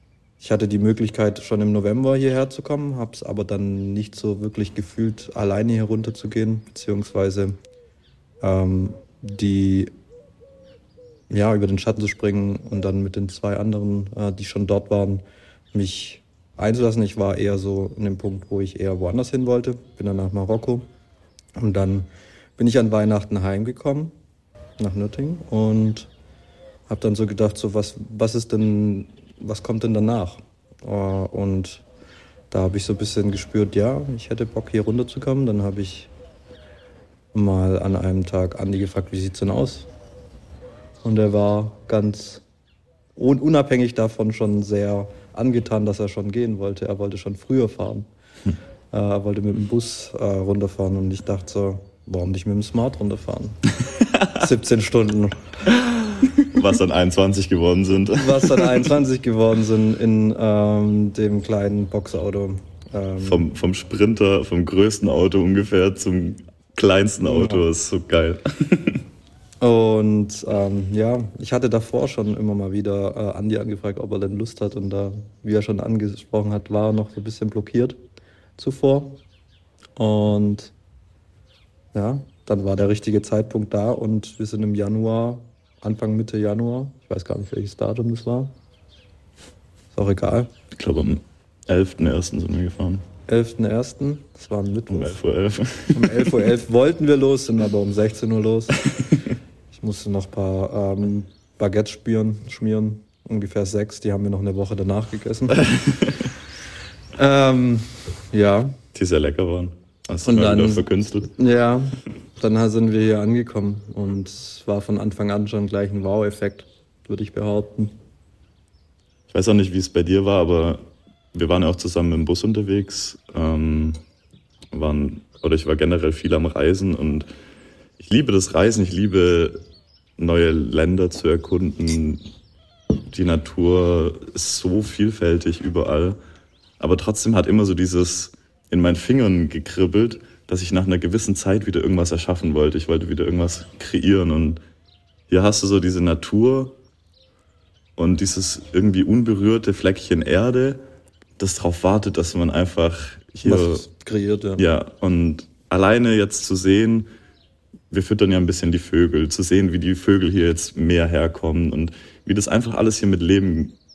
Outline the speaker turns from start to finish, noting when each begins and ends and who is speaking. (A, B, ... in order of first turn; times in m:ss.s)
0:00.4-0:07.6 A
0:08.4-0:09.9 A
0:11.3-0:20.9 A
0:21.5-0:24.1 A
0:24.8-0:26.1 A
0:26.9-0:31.8 A
0:32.5-0:36.1 A
0:37.3-0:39.9 A
0:41.0-0:42.4 A
0:43.2-0:48.1 A
0:48.9-0:53.6 A
0:53.9-0:54.4 B
0:54.4-0:55.4 A
0:55.7-0:58.9 B
0:58.1-1:03.4 A
1:03.2-1:09.0 B
1:07.2-1:07.6 A
1:09.6-1:18.0 A
1:18.6-1:19.2 A
1:20.0-1:20.7 A
1:21.9-1:28.5 A
1:29.9-1:30.5 A
1:30.7-1:33.0 B
1:33.3-1:35.2 A
1:34.9-1:36.4 B
1:35.9-1:38.8 A
1:38.8-1:39.3 B
1:39.7-1:45.7 A
1:45.6-1:46.2 B
1:47.2-1:48.8 A
1:48.9-1:51.3 B
1:50.2-1:57.9 A
1:59.3-2:04.0 B
2:04.7-2:07.3 B
2:08.0-2:09.6 B
2:10.2-2:12.2 B
2:13.1-2:16.2 B
2:16.8-2:24.6 B
2:25.3-2:26.8 B
2:28.0-2:30.8 B
2:31.4-2:33.8 B
2:33.4-2:34.6 A
2:34.6-2:37.1 B
2:37.9-2:43.8 B